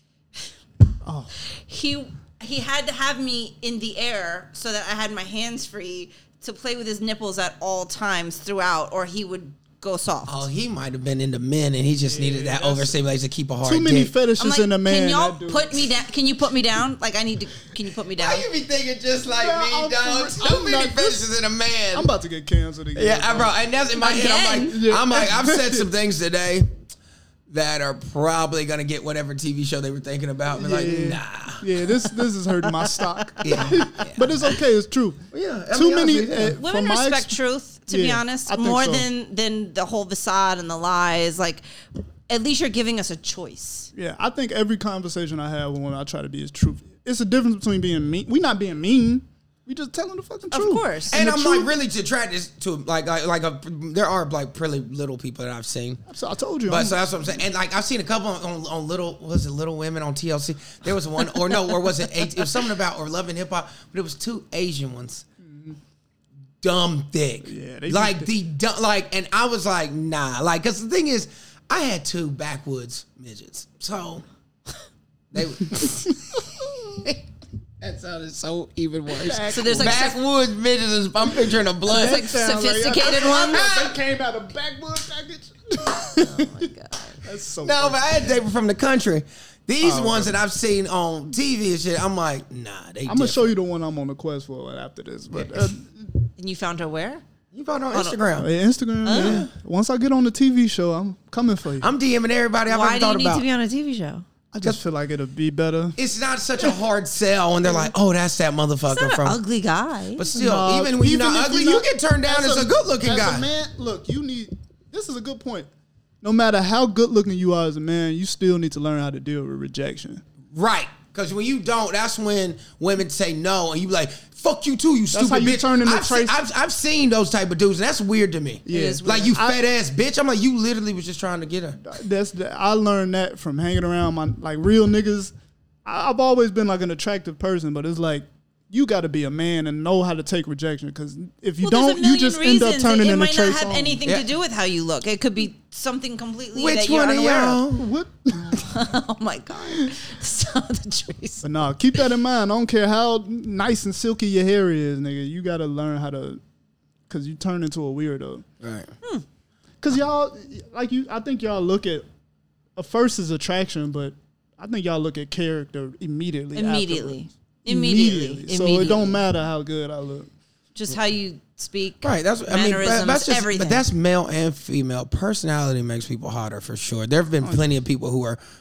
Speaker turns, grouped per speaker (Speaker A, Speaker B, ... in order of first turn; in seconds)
Speaker A: 1.0-1.3, 12.1-13.0, 13.6-15.8, 19.3-21.3, 21.9-23.6, 24.6-25.9, 30.6-37.4, 37.9-39.1, 44.0-51.7, 56.1-57.1, 65.4-65.8, 67.4-68.3, 79.1-80.1, 81.9-86.7, 87.2-88.4, 89.8-90.3, 93.1-96.2, 98.4-101.9, 104.5-106.0, 110.3-115.7, 116.2-120.2, 125.1-126.4, 128.7-129.6, 131.8-135.3, 135.8-144.0, 147.7-148.9, 151.4-156.4, 157.1-158.5, 159.8-162.1, 162.8-170.3
Speaker B: 1.5-10.5, 14.4-18.5, 24.0-24.8, 32.6-33.5, 36.6-41.6, 42.3-43.9, 50.5-51.2, 79.5-80.2, 81.9-83.8, 86.1-87.2, 96.4-97.2, 97.9-98.2, 99.1-99.5, 102.7-104.3, 108.9-110.2, 128.7-129.3, 141.6-147.6, 148.5-151.5, 166.5-169.2, 170.8-173.8
Speaker C: 10.3-14.1, 18.2-22.1, 22.9-26.7, 27.5-31.7, 33.4-34.5, 35.3-36.6, 51.1-56.0, 56.7-65.2, 66.6-74.3, 75.3-77.2, 77.8-82.3, 83.5-84.0, 87.6-93.5, 97.5-98.5, 99.1-99.5, 101.8-103.4, 106.0-109.4, 110.2-113.5, 120.5-131.8, 144.1-144.3, 146.5-147.8, 158.6-158.9, 172.0-178.4